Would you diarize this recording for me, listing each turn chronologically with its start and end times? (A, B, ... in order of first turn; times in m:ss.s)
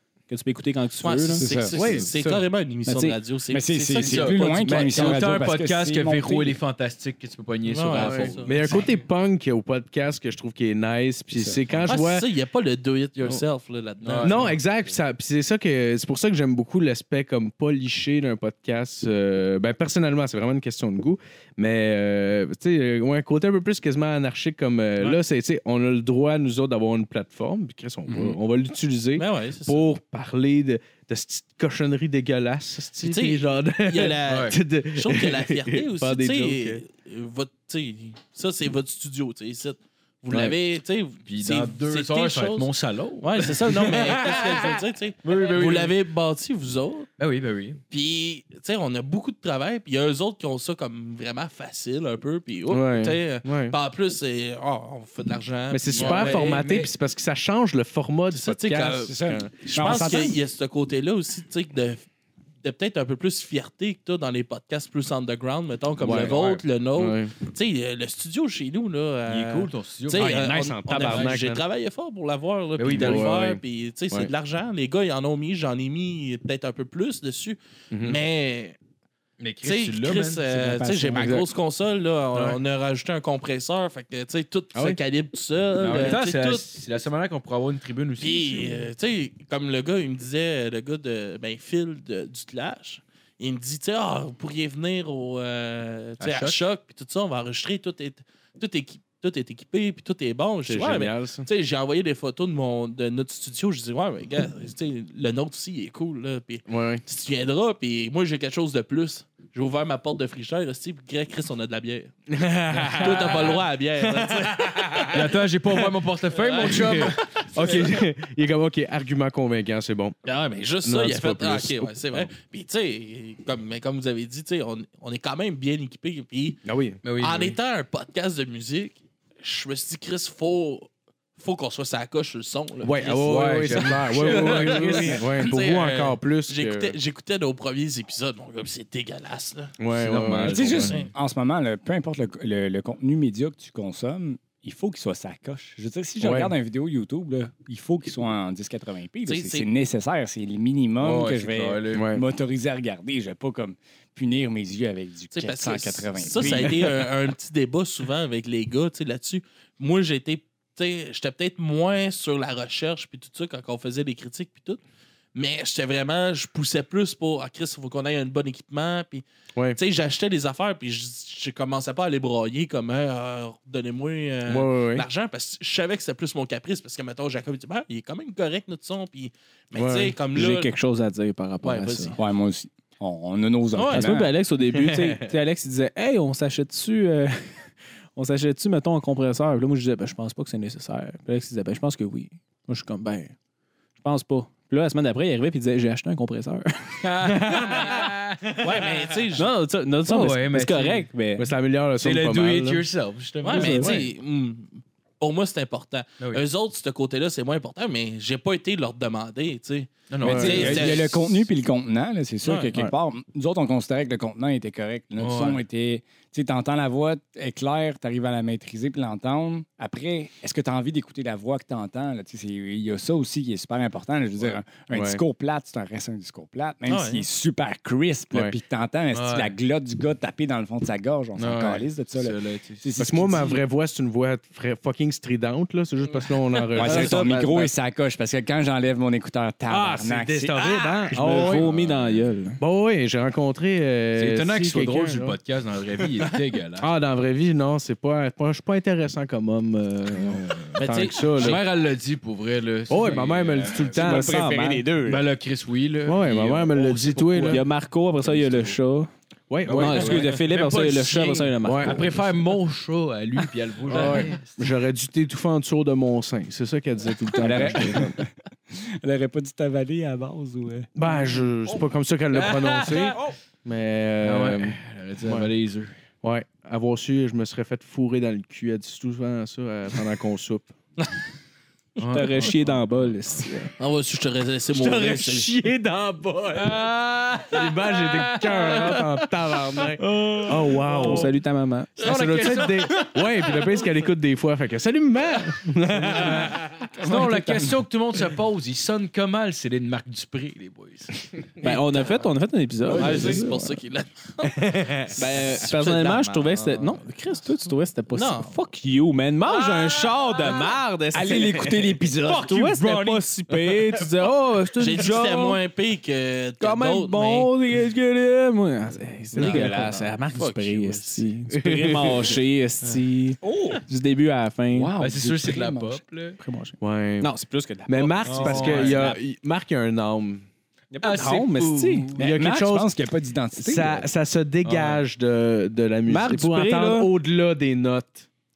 0:00.3-0:01.5 A
0:01.0-0:05.1 B
0:01.4-0:01.8 C
0:01.7-0:02.4 D
0:02.8-0:03.2 A
0:03.5-0:06.6 C
0:04.0-0:09.0 E
0:04.6-0:05.3 D
0:07.6-0:08.8 B
0:07.9-0:12.3 D
0:11.3-0:11.6 C
0:11.8-0:14.6 B
0:14.0-0:14.6 E
0:14.2-0:36.8 D
0:29.2-0:29.9 B
0:33.0-0:42.7 B
0:34.3-0:34.5 E
0:40.3-0:40.5 D
0:41.2-0:44.6 E
0:43.2-0:47.1 B
0:45.2-0:46.0 E
0:47.2-0:47.8 E
0:47.9-0:56.7 B
0:52.7-0:53.7 D
0:55.7-0:59.9 D
0:55.9-0:56.8 E
0:56.3-0:56.8 C
0:58.3-1:02.0 B
0:58.9-1:00.4 C
1:02.6-1:18.8 B
1:06.0-1:06.4 D
1:06.0-1:06.6 E
1:07.0-1:07.3 D
1:09.3-1:11.3 E
1:10.2-1:11.6 D
1:12.8-1:13.5 E
1:12.9-1:14.3 D
1:17.9-1:18.2 D
1:19.4-1:20.6 E
1:19.6-1:26.7 B
1:20.6-1:21.4 C
1:21.2-1:21.4 D
1:24.7-1:25.0 D
1:25.8-1:28.9 E
1:28.2-1:52.1 B
1:36.2-1:36.6 E
1:40.7-1:41.5 D
1:46.7-1:47.0 D
1:52.3-1:55.2 D
1:52.8-1:53.6 E
1:53.0-1:55.3 B
1:55.1-1:57.2 E
1:56.3-1:58.0 B
1:56.7-2:00.2 D
2:00.2-2:06.6 B
2:00.8-2:02.3 D
2:06.6-2:07.0 D
2:07.0-2:07.6 E
2:07.2-2:19.8 B
2:12.8-2:17.0 D
2:13.0-2:15.5 E
2:19.8-2:21.0 D
2:19.9-2:20.9 E
2:20.4-2:37.0 C
2:20.7-2:21.1 B
2:26.2-2:26.5 D
2:29.2-2:29.7 B
2:31.0-2:32.1 E
2:31.9-2:32.2 D
2:35.3-2:44.8 B
2:45.3-3:00.7 B
2:54.4-2:55.0 D
2:59.7-3:00.2 D
3:00.3-3:02.2 A
3:01.6-3:02.2 B
3:02.2-3:04.3 C
3:03.8-3:04.1 B
3:03.9-3:07.6 A
3:04.7-3:05.3 D
3:08.2-3:13.3 A
3:14.0-3:17.7 A
3:17.0-3:19.2 E
3:17.4-3:17.9 D
3:18.6-3:19.5 B
3:19.4-3:21.5 A
3:20.0-3:21.1 E
3:21.4-3:22.9 D
3:22.0-3:24.0 E
3:23.4-3:31.2 B
3:23.5-3:23.9 A
3:30.1-3:31.1 E
3:30.2-3:53.6 C
3:30.2-3:30.9 D
3:32.4-3:32.7 B
3:35.2-3:35.6 E
3:44.9-3:45.2 D
3:46.9-3:47.2 B
3:49.1-3:49.5 E
3:51.4-3:53.0 E
3:53.0-3:57.4 D
3:56.7-4:00.6 C
3:56.8-3:57.7 A
3:59.7-4:05.4 D
4:01.1-4:02.6 A
4:04.1-4:06.9 E
4:06.8-4:11.6 D
4:10.8-4:11.6 B
4:11.3-4:14.1 E
4:12.9-4:14.5 D
4:13.9-4:15.2 C
4:14.0-4:14.8 A
4:15.0-4:17.6 E
4:16.0-4:17.6 D
4:17.4-4:19.1 A
4:18.2-4:18.8 E
4:19.5-4:20.4 D
4:19.6-4:24.7 E
4:19.7-4:22.2 A
4:21.6-4:22.1 D
4:23.8-4:28.2 D
4:27.4-4:30.9 C
4:30.9-4:35.5 D
4:31.1-4:31.8 E
4:32.3-4:33.3 E
4:34.2-4:36.0 E
4:36.2-4:40.7 D
4:42.0-4:42.8 E
4:42.1-4:43.7 A
4:43.8-4:45.5 B
4:44.7-4:51.3 D
4:46.6-4:49.3 E
4:50.0-4:51.3 E
4:50.9-4:52.0 A
4:52.0-4:53.1 E
4:52.0-4:56.9 D
4:56.0-5:01.2 E
4:56.9-4:57.8 C
5:01.6-5:03.8 A
5:01.7-5:02.2 B
5:02.9-5:07.0 B
5:03.0-5:03.4 E
5:04.4-5:05.5 D
5:05.1-5:15.6 A
5:08.1-5:08.6 B
5:11.1-5:13.0 C
5:12.4-5:13.2 E
5:14.8-5:17.5 B
5:16.6-5:24.9 A
5:19.4-5:19.9 D
5:19.4-5:21.3 B
5:21.5-5:22.3 D
5:23.4-5:23.8 C
5:24.7-5:26.0 C
5:25.0-5:26.4 E
5:26.4-5:29.2 A
5:26.8-5:27.3 D
5:27.8-5:30.4 D
5:28.2-5:29.1 E
5:30.9-5:32.1 A
5:31.0-5:32.3 E
5:32.1-5:32.9 D
5:32.2-5:34.1 C
5:33.6-5:38.3 D
5:34.6-5:35.0 E
5:36.1-5:37.1 A